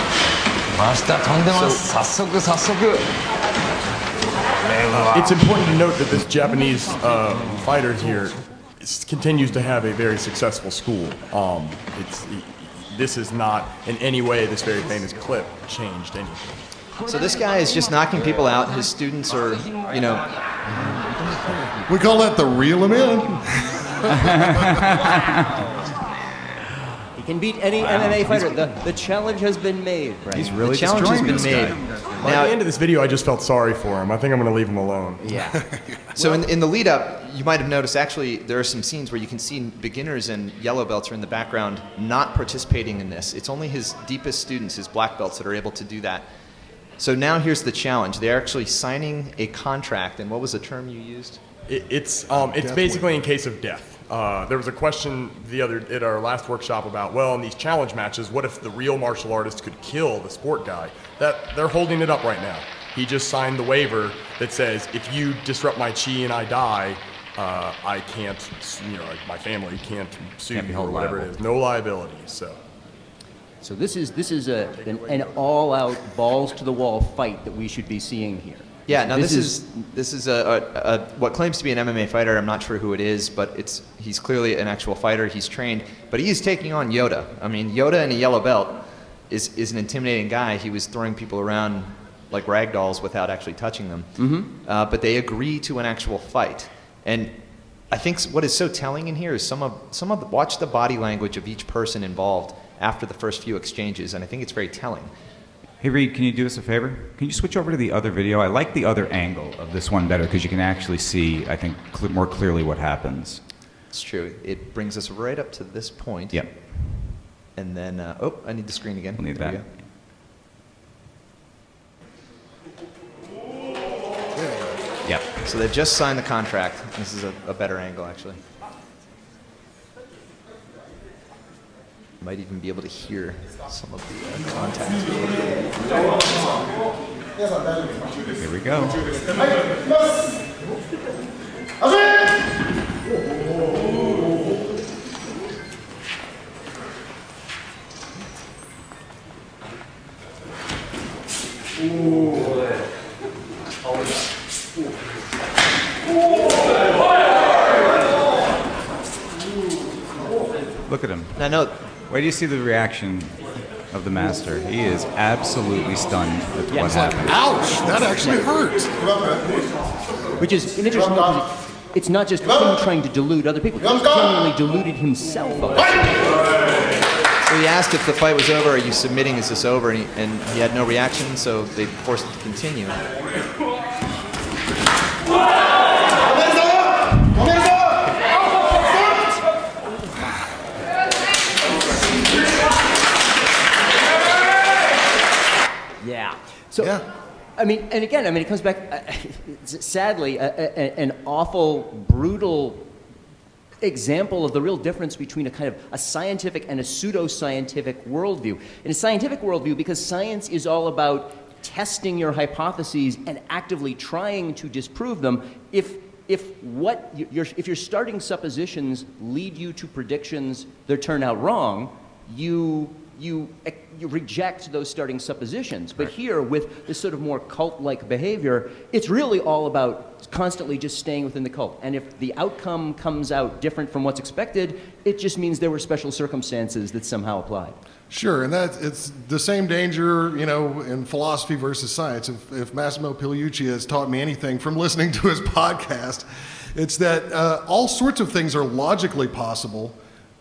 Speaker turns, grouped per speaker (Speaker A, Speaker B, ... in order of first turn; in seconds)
Speaker A: 0.8-3.0, 4.7-5.2
Speaker B: 4.9-16.6, 32.1-35.2, 51.7-72.6, 74.7-75.4
Speaker C: 17.0-20.3, 30.3-32.6, 36.1-46.3, 47.0-51.4, 78.9-97.3, 97.9-105.1, 113.9-116.4, 117.5-119.7, 125.4-128.4, 132.2-135.7, 161.3-161.7, 177.4-183.0
Speaker D: 21.9-24.6, 35.5-36.1, 52.3-53.3, 124.3-124.8, 166.7-169.9, 196.8-197.0, 238.1-250.0
Speaker E: 27.1-30.6, 35.2-35.6, 36.1-36.5, 73.6-79.6, 94.2-94.5, 166.7-168.4, 170.4-176.4, 196.0-197.0, 197.6-202.9, 203.8-237.8
Speaker F: 27.8-28.5, 30.6-31.7, 70.5-71.3, 105.8-113.4, 116.3-117.2, 119.2-119.7, 138.4-139.1, 160.9-161.4, 162.1-167.4